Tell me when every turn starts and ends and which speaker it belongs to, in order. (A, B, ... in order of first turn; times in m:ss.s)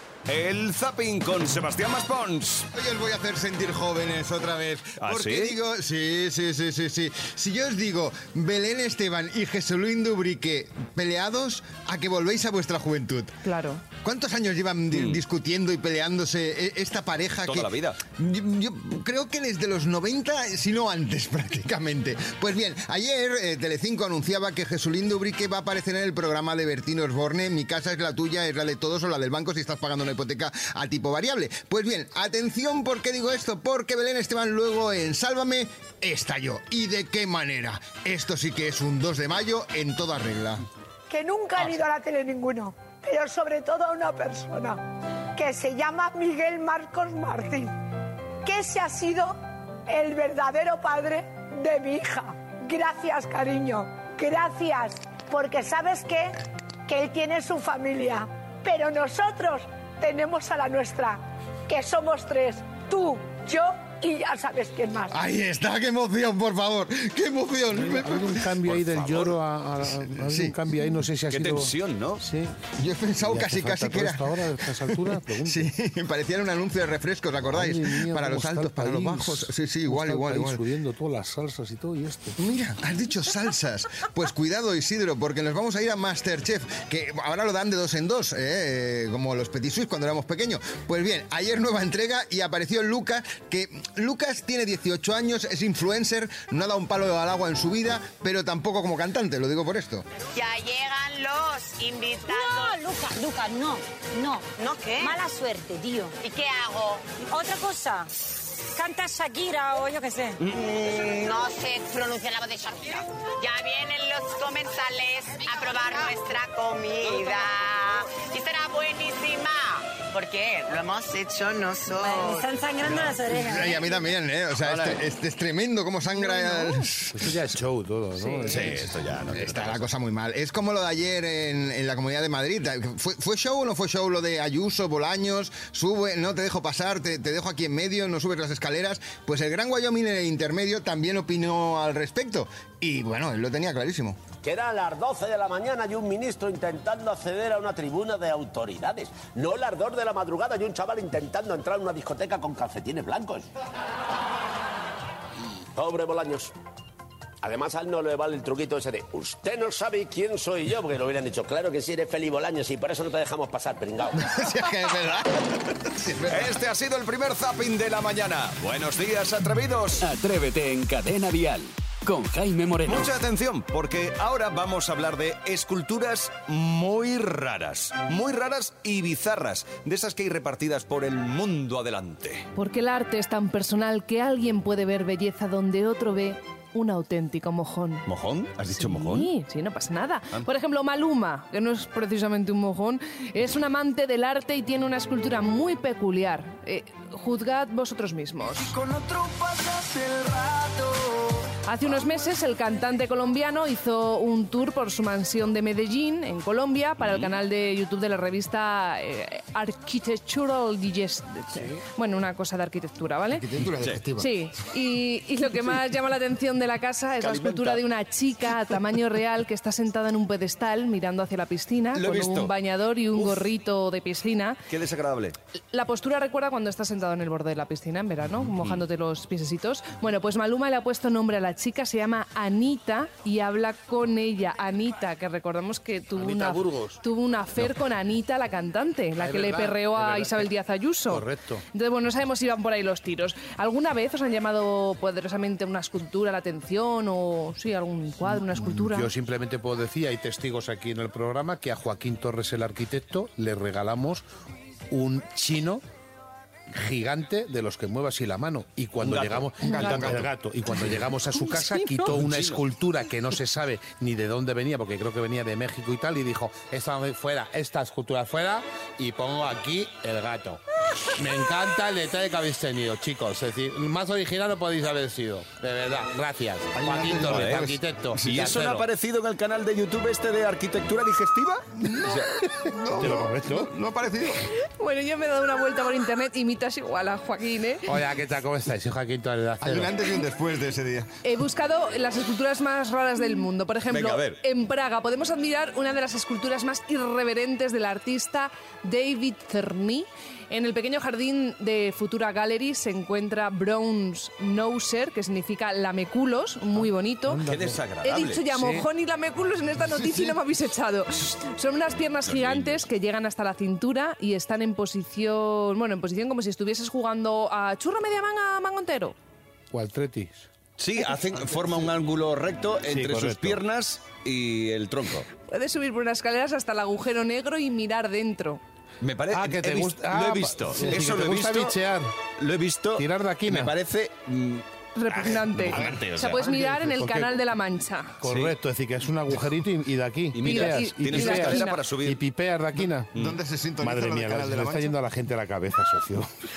0:00.3-0:02.7 A
0:02.7-0:13.4 B
0:05.0-0:05.6 A
0:13.4-0:13.8 C
0:14.0-0:40.6 B
0:14.9-0:15.2 A
0:17.4-0:18.0 A
0:41.1-0:44.8 D
0:45.4-0:47.8 D
0:48.4-1:05.1 D
1:05.1-1:08.5 B
1:07.7-1:12.6 E
1:08.6-1:09.4 A
1:10.2-1:10.6 B
1:11.3-1:12.2 A
1:12.8-1:20.6 B
1:13.2-1:15.7 E
1:17.5-1:22.4 E
1:22.4-1:40.0 B
1:40.3-1:42.8 F
1:42.3-1:46.2 G
1:44.6-1:45.2 F
1:46.2-1:47.2 F
1:47.3-1:48.1 G
1:48.8-1:50.4 G
1:50.4-2:02.6 F
2:02.2-2:03.8 G
2:02.9-2:07.3 B
2:04.6-2:05.0 A
2:06.2-2:06.8 C
2:07.1-2:08.9 E
2:08.2-2:08.5 C
2:08.5-2:09.9 A
2:09.3-2:24.2 B
2:24.4-2:33.5 H
2:35.8-2:36.5 H
2:37.4-2:44.2 H
2:44.2-2:46.5 B
2:46.3-2:50.0 A
2:50.0-2:53.1 I
2:52.9-3:02.5 A
3:02.6-3:08.1 C
3:08.1-3:09.3 A
3:08.7-3:18.8 C
3:21.7-3:33.5 C
3:27.0-3:27.3 A
3:33.3-3:34.3 B
3:34.2-3:44.6 C
3:37.2-3:37.8 A
3:41.9-3:42.5 A
3:43.2-3:43.4 A
3:44.7-3:45.4 A
3:45.7-4:09.1 C
3:56.2-3:57.0 E
3:59.2-4:00.5 E
4:01.1-4:01.6 E
4:08.3-4:14.2 E
4:14.9-4:15.8 E
4:16.7-4:30.6 E
4:19.0-4:20.3 A
4:19.6-4:20.0 C
4:19.8-4:20.2 B
4:21.5-4:22.0 C
4:22.1-4:22.6 A
4:31.1-4:38.9 E
4:36.8-4:37.7 B
4:37.2-4:42.3 A
4:41.8-4:44.5 B
4:42.9-4:43.7 E
4:44.8-4:47.9 C
4:47.9-4:49.9 E
4:49.6-4:51.1 B
4:51.2-5:07.4 C
4:53.9-4:54.4 A
5:06.8-5:07.8 E
5:07.5-5:08.5 A
5:08.0-5:19.2 C
5:08.5-5:08.9 E
5:12.3-5:12.8 A
5:19.7-5:20.5 E
5:20.8-5:25.3 A
5:22.9-5:23.6 E
5:25.5-5:28.6 C
5:29.0-5:31.8 A
5:29.3-5:32.1 E
5:32.4-5:36.5 A
5:33.0-5:33.7 E
5:35.0-5:38.2 C
5:36.5-5:37.4 E
5:38.2-5:43.1 E
5:38.2-5:38.6 A
5:40.3-5:42.2 A
5:40.4-5:41.8 C
5:43.1-5:45.0 B
5:43.8-5:46.3 E